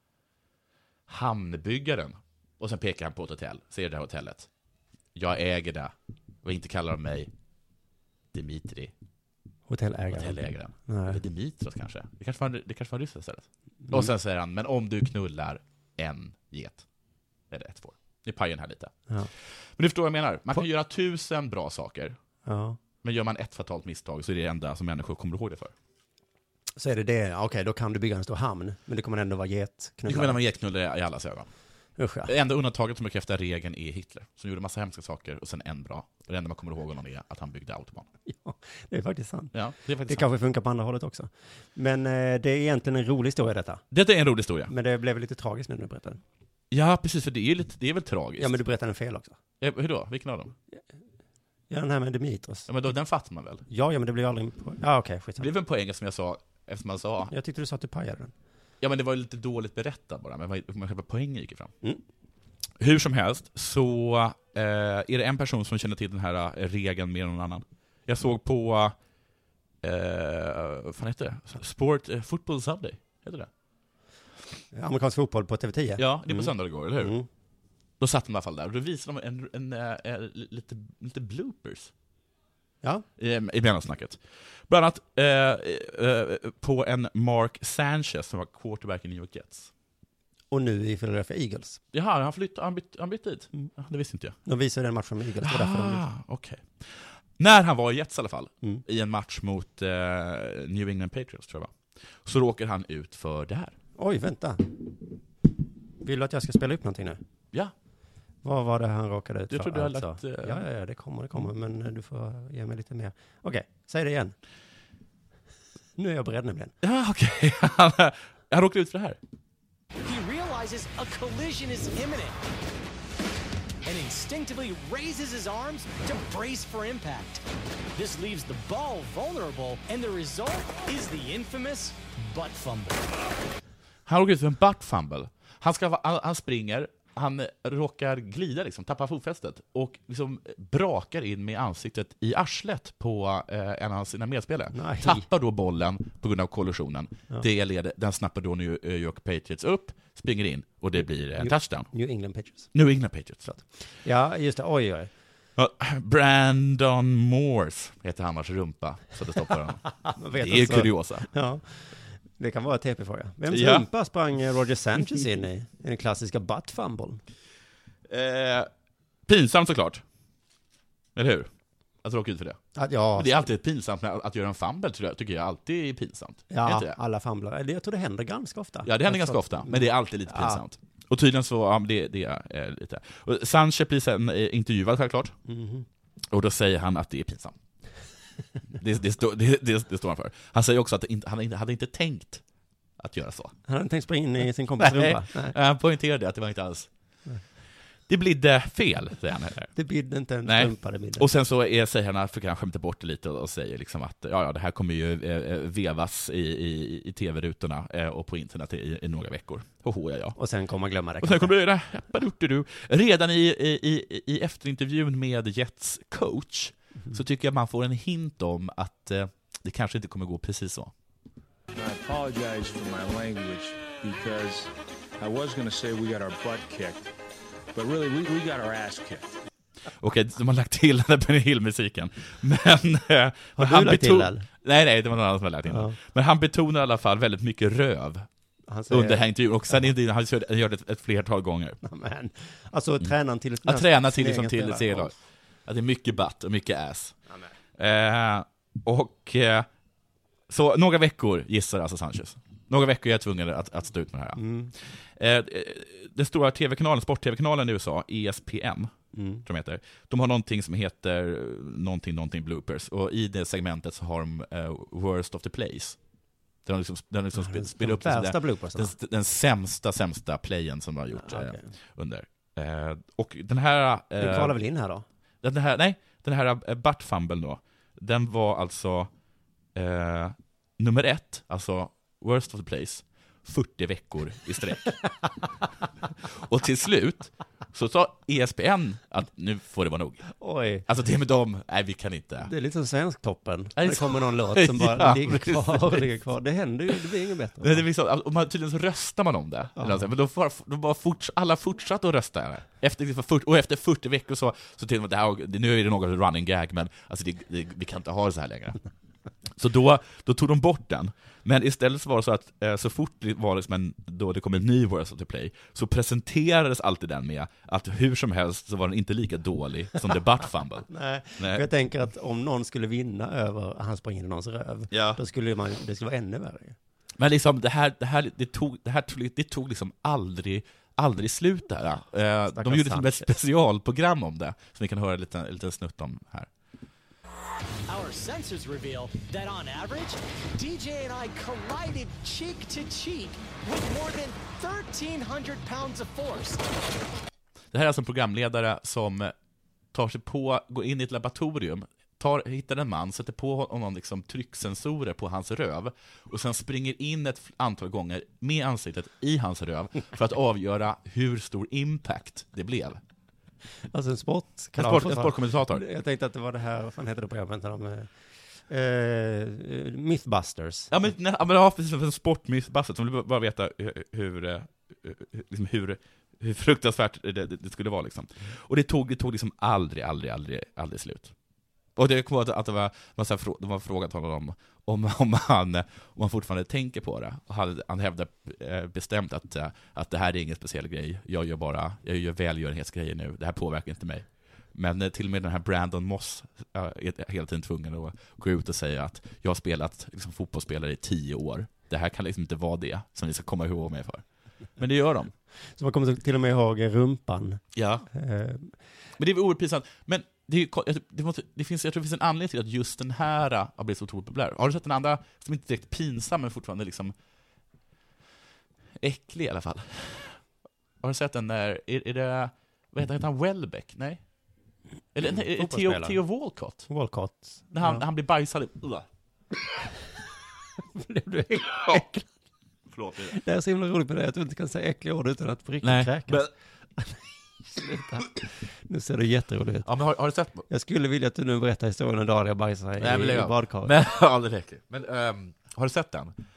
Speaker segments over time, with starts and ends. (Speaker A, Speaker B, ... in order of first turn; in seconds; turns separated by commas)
Speaker A: 1.1-4.5, Speaker A: 5.1-7.3, Speaker A: 8.3-8.9, Speaker B: 9.7-11.2, Speaker A: 10.1-16.8, Speaker A: 17.5-18.9, Speaker A: 19.6-22.2, Speaker B: 22.4-22.8, Speaker A: 23.0-25.7, Speaker B: 26.8-30.4, Speaker A: 30.1-31.5, Speaker B: 32.0-32.3, Speaker A: 32.3-38.1, Speaker B: 38.3-39.5, Speaker A: 39.5-40.3, Speaker B: 40.1-43.8, Speaker A: 43.9-44.7, Speaker B: 44.7-46.2, Speaker A: 46.7-48.6, Speaker B: 48.4-49.4, Speaker A: 49.6-50.5, Speaker B: 51.7-52.7, Speaker A: 52.7-53.6, Speaker B: 53.7-55.5, Speaker A: 55.4-57.3, Speaker B: 57.3-58.3, Speaker A: 58.8-61.7, Speaker A: 62.8-68.9, Speaker A: 69.8-73.5, Speaker B: 74.7-77.3, Speaker A: 76.0-77.2, Speaker A: 78.0-81.9, Speaker A: 83.2-89.7, Speaker B: 90.5-91.8, Speaker A: 91.9-94.4, Speaker B: 94.5-96.0, Speaker A: 95.4-103.7, Speaker B: 104.0-104.8, Speaker B: 106.0-107.2, Speaker B: 108.4-114.3, Speaker A: 109.5-110.6, Speaker B: 116.0-116.7, Speaker A: 116.8-119.2, Speaker C: 120.0-122.4, Speaker C: 123.8-127.4, Speaker C: 127.9-133.0, Speaker A: 134.1-151.9, Speaker B: 144.7-145.2, Speaker B: 151.4-152.7, Speaker A: 152.7-153.5, Speaker B: 153.5-155.1, Speaker A: 155.6-161.3, Speaker B: 160.0-167.2, Speaker A: 163.5-163.8, Speaker A: 168.1-168.7, Speaker A: 169.3-170.0, Speaker A: 171.1-171.5, Speaker A: 172.0-172.6, Speaker B: 172.7-173.3, Speaker A: 173.2-177.0, Speaker B: 176.5-180.6, Speaker A: 178.8-185.3, Speaker B: 185.4-185.8, Speaker A: 186.3-187.6, Speaker A: 188.7-192.4, Speaker A: 193.0-193.5, Speaker B: 193.7-195.6, Speaker A: 194.8-196.9, Speaker A: 198.1-199.7, Speaker B: 199.8-201.3, Speaker A: 200.4-210.4, Speaker B: 210.4-211.6, Speaker A: 211.2-220.9, Speaker D: 221.7-227.1, Speaker D: 227.7-229.3, Speaker A: 229.9-238.2, Speaker B: 233.6-234.5, Speaker B: 235.7-235.9, Speaker B: 238.7-239.3, Speaker A: 238.9-241.8, Speaker B: 241.8-245.1, Speaker A: 243.6-247.2, Speaker A: 247.8-249.7, Speaker A: 250.5-258.9, Speaker B: 254.3-254.7, Speaker B: 259.1-259.4, Speaker A: 259.4-266.0, Speaker A: 266.6-274.6, Speaker B: 267.4-268.9, Speaker B: 271.1-271.7, Speaker B: 274.2-275.1, Speaker A: 275.4-279.1, Speaker A: 279.7-285.1, Speaker A: 286.1-290.3, Speaker B: 290.4-290.9, Speaker A: 290.9-292.5, Speaker B: 292.4-297.8, Speaker A: 293.8-296.0, Speaker A: 297.6-308.8, Speaker A: 309.5-321.6, Speaker B: 320.9-326.8, Speaker A: 324.9-325.2, Speaker A: 327.2-336.5, Speaker B: 332.5-333.3, Speaker C: 337.9-346.6, Speaker A: 347.7-349.3, Speaker A: 349.9-363.0, Speaker B: 363.9-368.1, Speaker A: 364.8-365.8, Speaker B: 368.7-370.9, Speaker A: 370.9-381.3, Speaker A: 381.9-404.2, Speaker A: 404.8-405.3, Speaker B: 405.8-408.7, Speaker A: 407.7-408.1, Speaker A: 409.2-417.1, Speaker A: 419.0-420.4, Speaker A: 421.0-424.2, Speaker A: 425.1-426.9, Speaker B: 425.2-426.2, Speaker B: 426.9-428.0, Speaker A: 427.7-429.1, Speaker B: 430.9-432.3, Speaker A: 432.9-433.4, Speaker B: 433.3-436.5, Speaker A: 435.8-436.5, Speaker B: 437.7-439.9, Speaker A: 439.9-440.6, Speaker B: 440.7-444.0, Speaker A: 443.0-446.3